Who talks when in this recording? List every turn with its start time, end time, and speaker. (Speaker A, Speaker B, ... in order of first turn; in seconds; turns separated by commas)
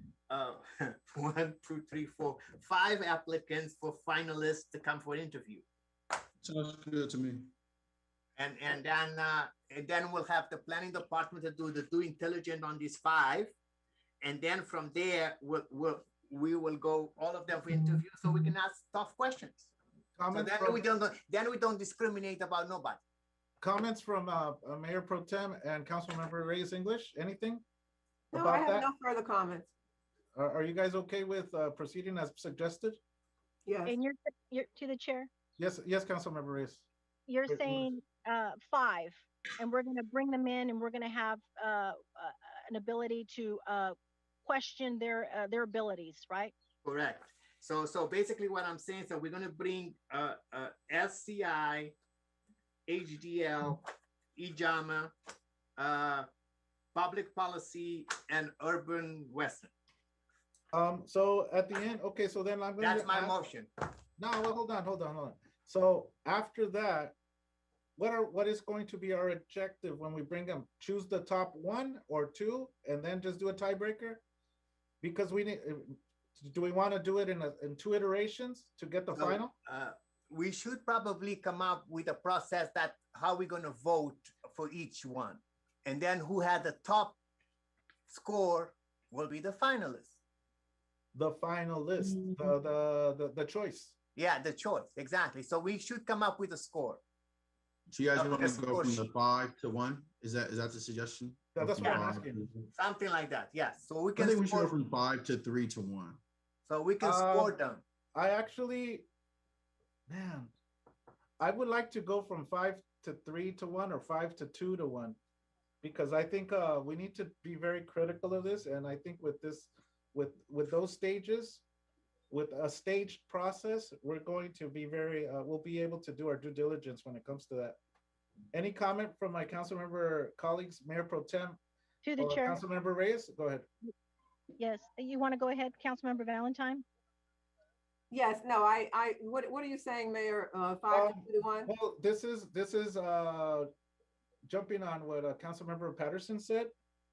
Speaker A: 0.3-5.6, Speaker B: 6.4-7.5, Speaker A: 8.4-13.5, Speaker A: 14.2-19.7, Speaker C: 20.2-20.9, Speaker A: 20.3-23.0, Speaker C: 23.6-27.6, Speaker D: 28.3-29.7, Speaker C: 28.3-28.9, Speaker C: 30.4-33.0, Speaker D: 33.7-34.0, Speaker E: 33.9-35.3, Speaker C: 35.6-36.9, Speaker E: 37.3-46.5, Speaker C: 37.5-37.9, Speaker A: 46.8-51.9, Speaker A: 52.9-53.8, Speaker A: 54.4-55.1, Speaker A: 55.8-56.3, Speaker A: 57.0-59.7, Speaker C: 60.7-63.4, Speaker A: 62.8-63.7, Speaker C: 64.2-67.1, Speaker C: 68.0-74.2, Speaker C: 75.0-79.5, Speaker A: 79.1-87.2, Speaker A: 88.1-90.2, Speaker C: 91.1-94.0, Speaker A: 94.2-97.0, Speaker B: 97.9-102.7, Speaker A: 98.1-99.1, Speaker C: 101.5-102.5, Speaker A: 101.8-102.1, Speaker A: 102.8-104.8, Speaker B: 104.2-106.2, Speaker A: 106.7-107.8, Speaker C: 107.0-107.6, Speaker C: 108.1-109.1, Speaker C: 110.1-110.5, Speaker C: 111.4-115.2, Speaker C: 115.8-121.6, Speaker C: 122.3-127.8, Speaker C: 128.5-131.6, Speaker E: 132.0-132.6, Speaker C: 132.2-133.7, Speaker E: 134.6-136.8, Speaker D: 138.1-141.7, Speaker C: 140.9-143.7, Speaker C: 144.4-146.7